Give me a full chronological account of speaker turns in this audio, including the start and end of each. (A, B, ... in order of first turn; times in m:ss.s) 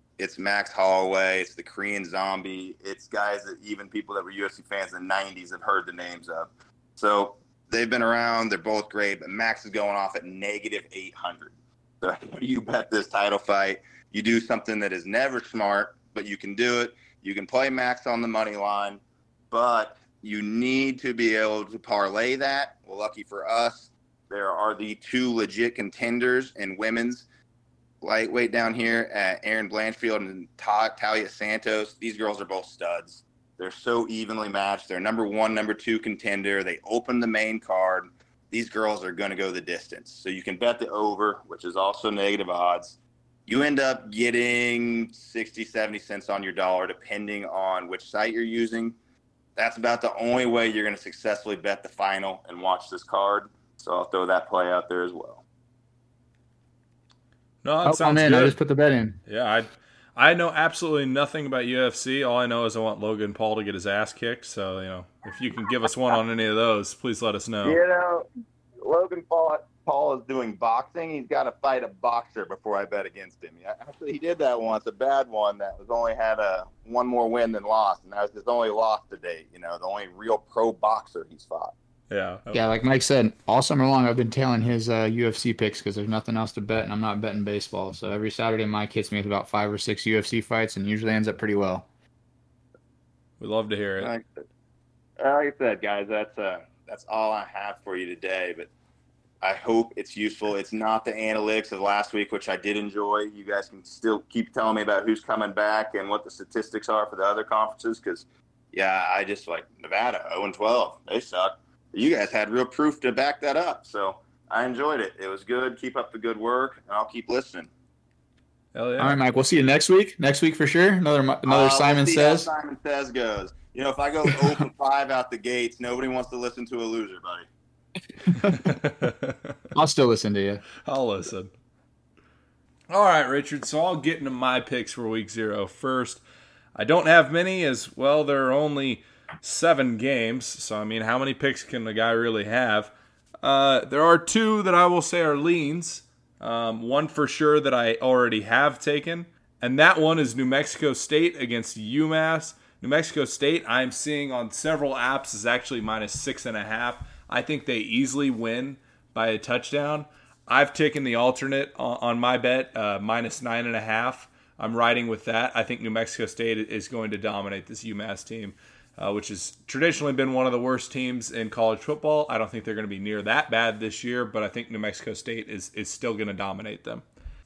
0:00.2-0:27.2 A
0:28.0-0:49.0 A
0:49.6-0:55.4 A
0:57.6-0:58.6 B
0:57.8-0:59.2 C
0:59.3-1:07.8 B
1:07.6-1:08.3 A
1:08.8-1:21.7 A
1:22.1-1:22.6 B
1:22.5-1:31.9 C
1:33.4-1:34.1 B
1:34.0-1:34.2 A
1:35.2-1:38.7 A
1:39.4-1:57.7 A
1:58.7-1:59.2 B
1:59.0-2:02.5 C
2:01.4-2:07.5 A
2:08.3-2:08.7 C
2:08.4-2:09.6 B
2:09.7-2:10.6 C
2:10.8-2:11.5 B
2:12.9-2:16.2 B
2:16.8-2:22.9 B
2:23.4-2:57.0 B